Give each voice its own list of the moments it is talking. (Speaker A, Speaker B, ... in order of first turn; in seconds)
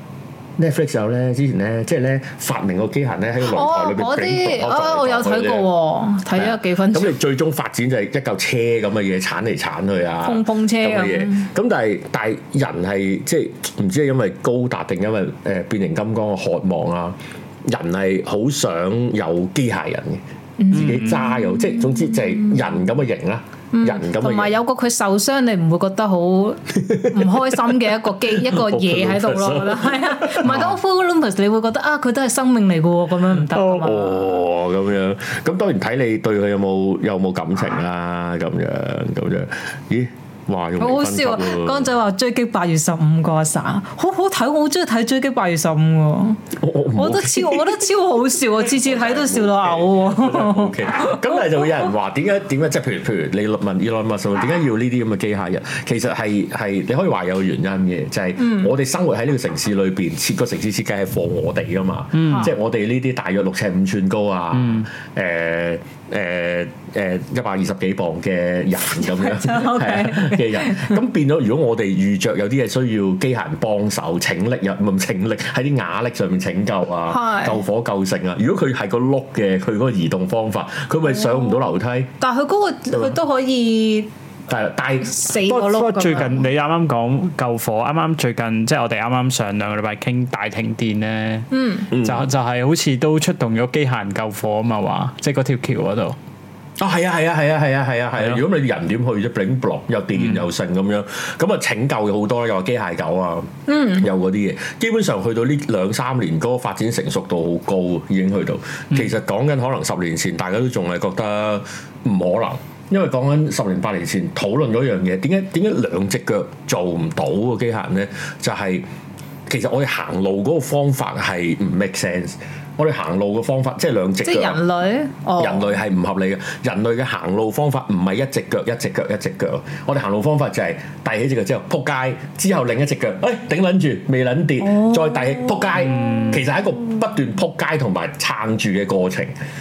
Speaker A: 0.6-5.7, 6.3-24.5, 26.8-27.6, 28.2-30.8, 33.5-41.9, 46.5-47.9, 48.6-82.1, 84.5-85.1, 91.9-92.3, 96.8-118.8, 119.5-124.6, 125.4-139.3
Speaker B: 3.4-7.1, 10.2-11.5, 20.6-22.5, 23.7-34.4, 40.8-46.4, 46.9-51.8, 58.4-58.7, 69.0-71.0, 77.1-77.6, 81.2-81.5, 82.2-84.1, 85.0-86.4, 91.5-91.9, 103.7-104.1, 124.2-125.7, 134.6-136.1
Speaker C: 20.7-21.3, 62.1-62.5, 64.5-64.9, 85.5-96.2, 100.2-100.4